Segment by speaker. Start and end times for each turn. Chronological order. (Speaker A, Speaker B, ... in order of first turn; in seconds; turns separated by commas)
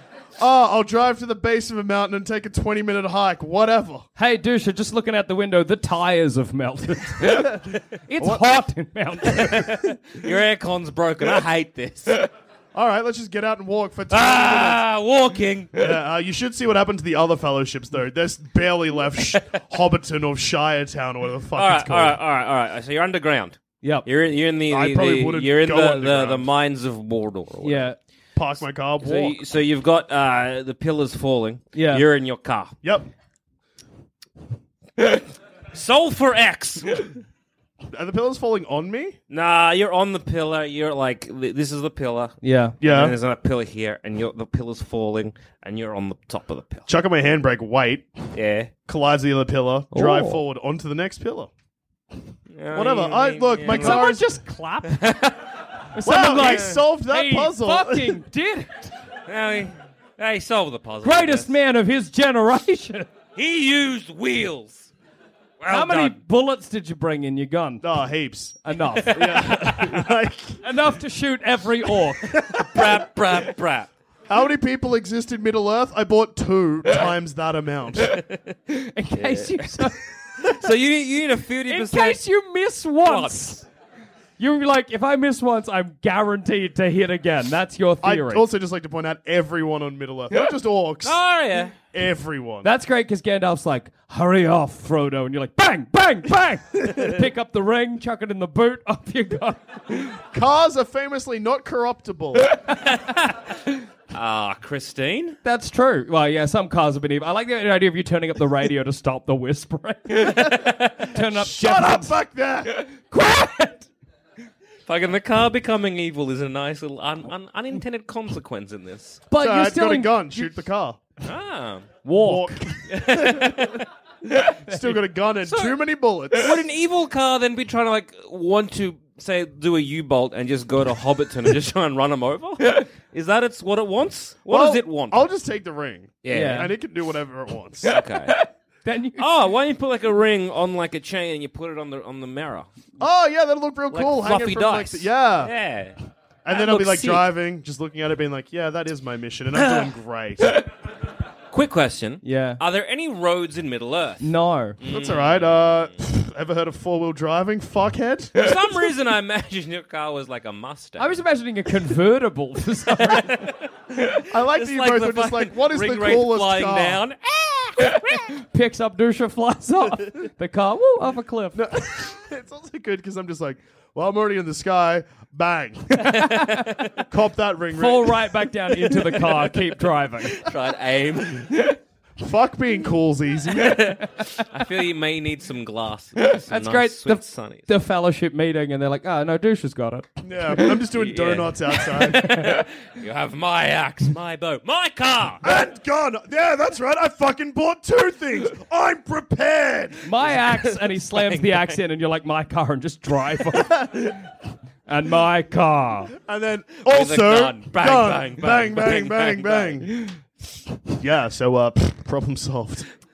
Speaker A: 0.4-4.1, Speaker B: 4.2-9.8, Speaker C: 9.5-12.3, Speaker A: 12.7-14.8, Speaker C: 14.1-15.9, Speaker A: 15.8-22.2, Speaker C: 21.6-27.9, Speaker A: 24.7-26.5, Speaker B: 27.6-28.0, Speaker A: 28.4-29.4, Speaker C: 29.0-32.8, Speaker B: 31.7-32.0, Speaker A: 32.8-33.1, Speaker C: 35.0-37.1, Speaker A: 37.9-39.2, Speaker C: 39.3-46.9, Speaker B: 42.4-42.8, Speaker A: 42.8-43.2, Speaker A: 46.9-48.1, Speaker C: 48.3-48.7, Speaker A: 48.9-51.5, Speaker B: 49.9-50.4, Speaker C: 52.5-54.1, Speaker A: 52.7-54.2, Speaker B: 53.7-55.0, Speaker C: 54.9-55.4, Speaker B: 55.9-58.9, Speaker A: 56.0-58.1, Speaker C: 56.4-56.7, Speaker C: 59.3-61.5, Speaker B: 61.0-63.1, Speaker C: 63.4-64.9, Speaker C: 65.6-66.2, Speaker B: 65.7-67.8, Speaker A: 67.8-70.6, Speaker B: 68.6-69.5, Speaker C: 69.2-70.1, Speaker B: 70.6-72.3, Speaker A: 72.2-73.0, Speaker C: 72.6-73.9, Speaker A: 74.3-78.2, Speaker B: 78.7-80.0, Speaker C: 79.2-79.9, Speaker C: 80.4-82.2, Speaker B: 81.7-83.7, Speaker C: 83.0-83.4, Speaker B: 84.4-88.4, Speaker A: 88.0-91.2, Speaker C: 91.0-91.8, Speaker A: 91.9-92.7, Speaker B: 92.6-100.1, Speaker A: 100.3-102.6, Speaker C: 102.9-103.4, Speaker C: 104.1-105.4, Speaker B: 105.4-110.5, Speaker A: 110.5-112.7, Speaker B: 111.1-112.2, Speaker B: 113.1-113.9, Speaker C: 114.9-119.2, Speaker B: 119.3-120.5, Speaker A: 119.3-121.0, Speaker C: 121.2-121.9, Speaker B: 122.0-122.6, Speaker A: 122.2-123.8, Speaker C: 122.9-123.8, Speaker A: 124.6-126.7, Speaker C: 125.5-125.8, Speaker C: 126.3-135.2, Speaker A: 134.5-138.0, Speaker C: 136.2-136.7, Speaker B: 136.3-136.7, Speaker C: 137.9-138.3, Speaker B: 138.8-139.3, Speaker C: 139.2-142.7, Speaker A: 143.0-145.5, Speaker C: 143.9-146.0, Speaker A: 146.4-150.6, Speaker B: 146.5-147.2, Speaker C: 146.7-147.2, Speaker C: 149.6-149.9, Speaker C: 151.5-154.2, Speaker B: 152.2-152.6, Speaker B: 154.2-154.8, Speaker C: 154.8-155.9, Speaker A: 154.9-158.5, Speaker C: 158.4-161.1, Speaker B: 161.0-163.5, Speaker C: 163.0-168.3, Speaker A: 164.3-167.0, Speaker B: 168.3-171.7, Speaker A: 171.6-176.1, Speaker B: 175.9-176.8, Speaker A: 177.1-179.5, Speaker B: 177.7-180.4, Speaker C: 180.4-181.7, Speaker A: 182.2-184.0, Speaker C: 183.6-187.7, Speaker B: 186.3-190.1, Speaker A: 190.2-192.4, Speaker C: 190.9-195.4, Speaker B: 192.1-192.6, Speaker A: 195.4-200.1, Speaker B: 200.1-204.2, Speaker C: 200.3-201.8, Speaker B: 204.9-206.1, Speaker A: 206.1-209.9, Speaker C: 206.9-209.8, Speaker A: 211.0-212.9